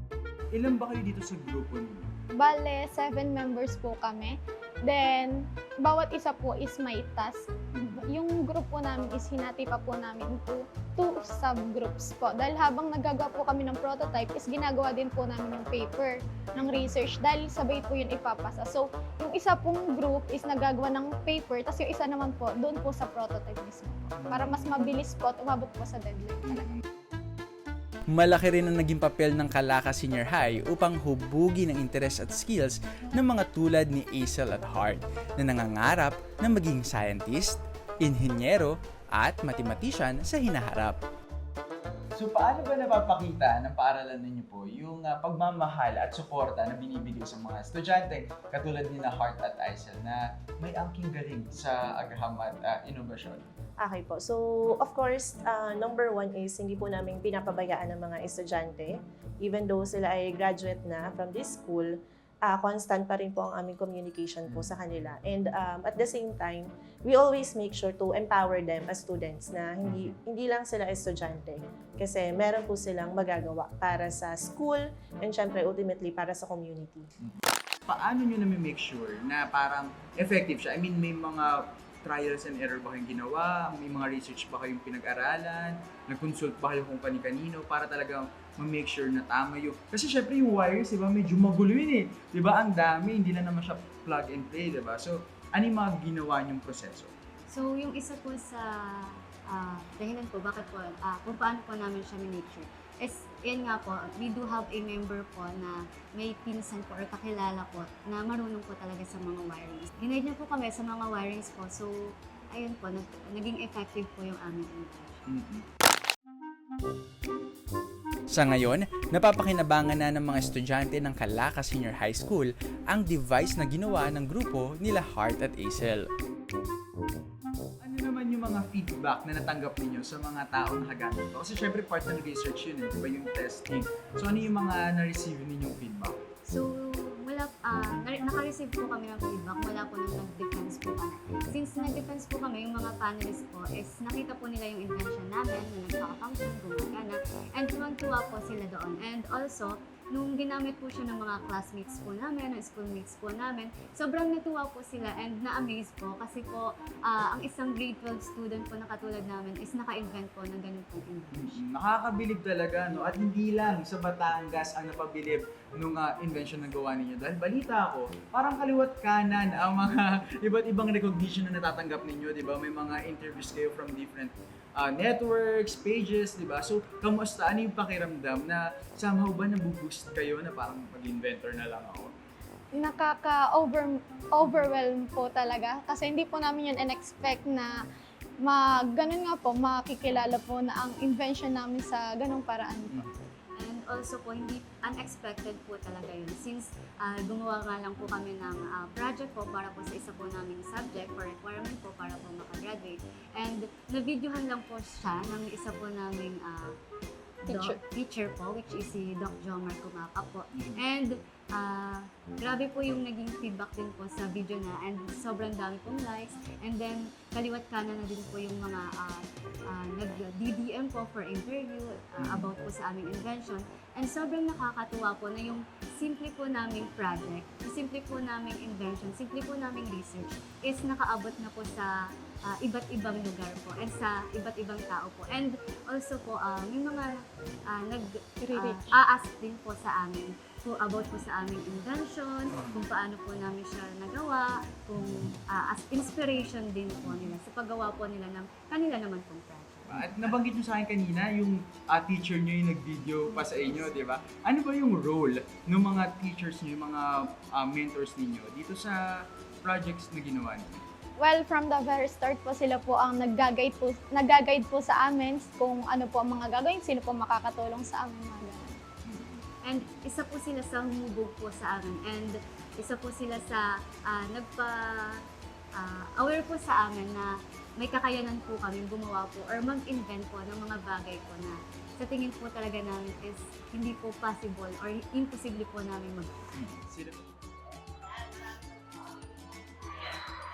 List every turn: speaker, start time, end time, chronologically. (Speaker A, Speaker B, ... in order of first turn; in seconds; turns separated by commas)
Speaker A: 0.5-2.1, Speaker B: 2.4-26.7, Speaker A: 16.5-16.8, Speaker A: 24.1-24.8, Speaker A: 26.4-26.8, Speaker C: 28.1-41.0, Speaker A: 42.2-53.5, Speaker D: 53.8-77.1, Speaker A: 77.2-97.1, Speaker E: 97.5-115.3, Speaker A: 115.3-115.6, Speaker C: 118.3-126.1, Speaker A: 127.8-136.2, Speaker E: 136.4-161.6, Speaker A: 161.3-182.1, Speaker B: 182.8-187.8, Speaker B: 188.4-193.1, Speaker E: 193.6-206.7, Speaker E: 207.4-231.9, Speaker B: 207.5-207.8, Speaker A: 210.5-210.8, Speaker A: 222.2-222.5, Speaker E: 232.5-250.2, Speaker B: 238.4-239.0, Speaker A: 242.5-242.8, Speaker A: 247.0-247.3, Speaker A: 249.9-259.0, Speaker A: 259.6-260.9, Speaker B: 261.2-268.8, Speaker A: 269.1-269.4, Speaker E: 269.6-275.2, Speaker E: 275.8-286.4, Speaker A: 286.6-287.3